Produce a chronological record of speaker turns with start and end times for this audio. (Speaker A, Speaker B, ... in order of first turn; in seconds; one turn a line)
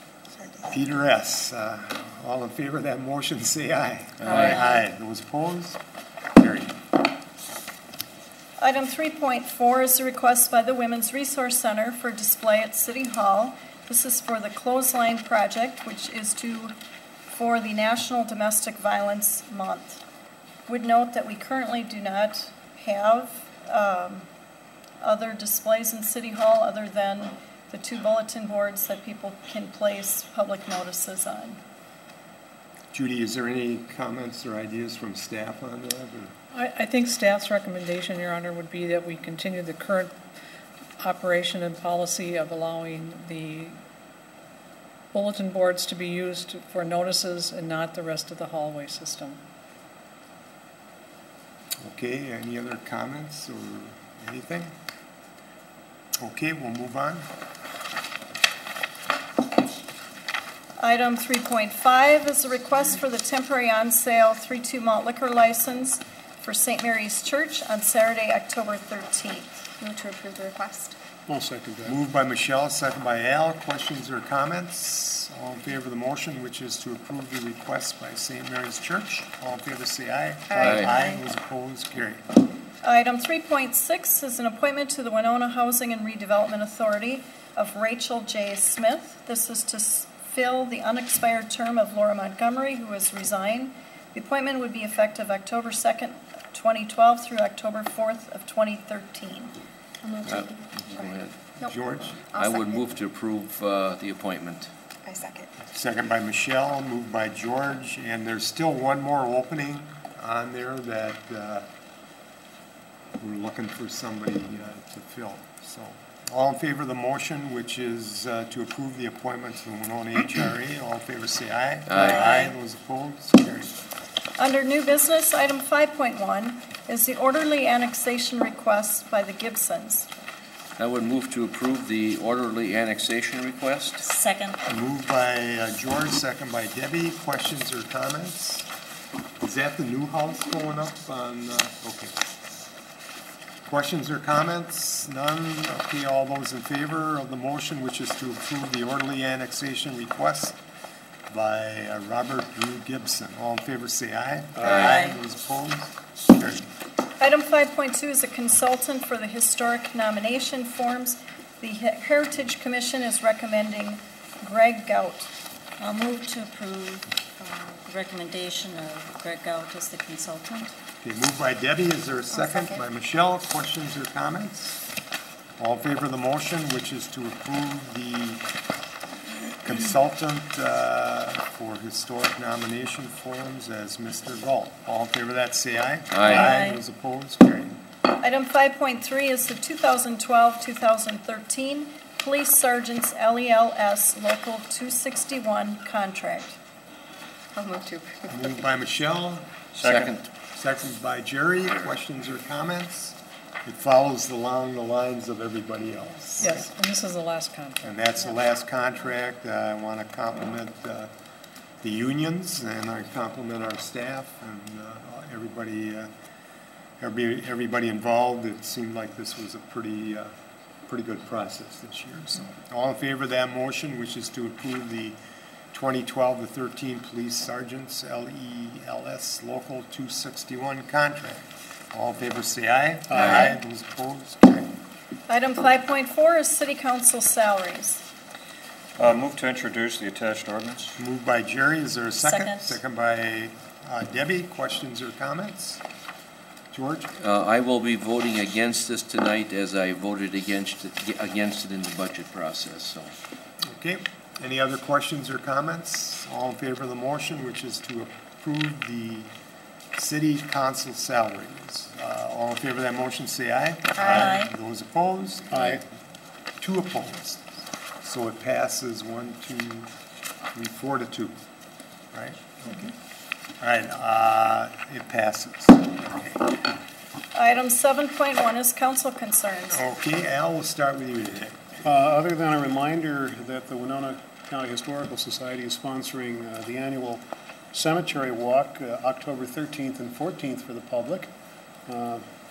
Speaker A: 0.6-5.8
Speaker A: 6.3-6.7
Speaker B: 8.6-16.7
Speaker B: 17.3-20.0
Speaker B: 20.7-24.3
Speaker B: 25.0-31.6
Speaker A: 32.9-36.3
Speaker C: 36.5-40.1
Speaker C: 41.0-43.8
Speaker C: 45.1-49.4
Speaker A: 51.8-54.7
Speaker A: 56.2-57.3
Speaker B: 60.8-69.7
Speaker D: 69.8-71.0
Speaker E: 71.3-72.0
Speaker A: 71.9-82.2
Speaker D: 80.5-81.2
Speaker F: 80.6-80.9
Speaker B: 82.8-99.5
Speaker D: 100.0-100.9
Speaker F: 100.3-101.4
Speaker A: 101.6-102.2
Speaker D: 102.3-102.8
Speaker F: 102.3-104.7
Speaker D: 105.1-105.5
Speaker A: 105.7-111.7
Speaker A: 113.2-123.8
Speaker F: 121.9-122.5
Speaker B: 122.0-122.3
Speaker B: 124.4-130.1
Speaker F: 130.8-134.1
Speaker G: 134.0-134.6
Speaker A: 134.6-138.7
Speaker A: 139.4-142.1
Speaker A: 143.7-150.6
Speaker A: 151.3-156.7
Speaker F: 154.6-154.9
Speaker G: 154.7-155.2
Speaker B: 157.2-165.3
Speaker G: 165.8-170.7
Speaker A: 171.0-174.8
Speaker D: 172.3-172.8
Speaker A: 175.6-178.4
Speaker A: 179.6-187.8
Speaker F: 186.1-186.6
Speaker G: 186.3-186.8
Speaker B: 188.2-196.6
Speaker D: 197.6-198.5
Speaker A: 198.3-199.5
Speaker H: 199.7-200.1
Speaker F: 199.8-200.2
Speaker A: 200.5-206.7
Speaker C: 206.4-208.0
Speaker A: 207.8-211.1
Speaker A: 211.8-216.1
Speaker A: 217.0-220.3
Speaker A: 220.9-225.2
Speaker A: 225.7-234.7
Speaker E: 233.1-233.4
Speaker B: 235.3-238.1
Speaker H: 239.0-241.0
Speaker A: 241.0-245.8
Speaker B: 242.2-242.8
Speaker A: 246.7-247.1
Speaker F: 247.2-253.1
Speaker A: 253.7-259.3
Speaker A: 259.9-265.8
Speaker D: 264.0-264.3
Speaker G: 264.2-264.5
Speaker E: 265.5-265.8
Speaker A: 266.6-267.4
Speaker A: 268.0-269.9
Speaker A: 270.5-271.4
Speaker A: 272.1-272.9
Speaker A: 273.6-276.5
Speaker B: 277.3-279.8
Speaker A: 279.7-281.7
Speaker E: 281.8-291.3
Speaker E: 291.9-292.2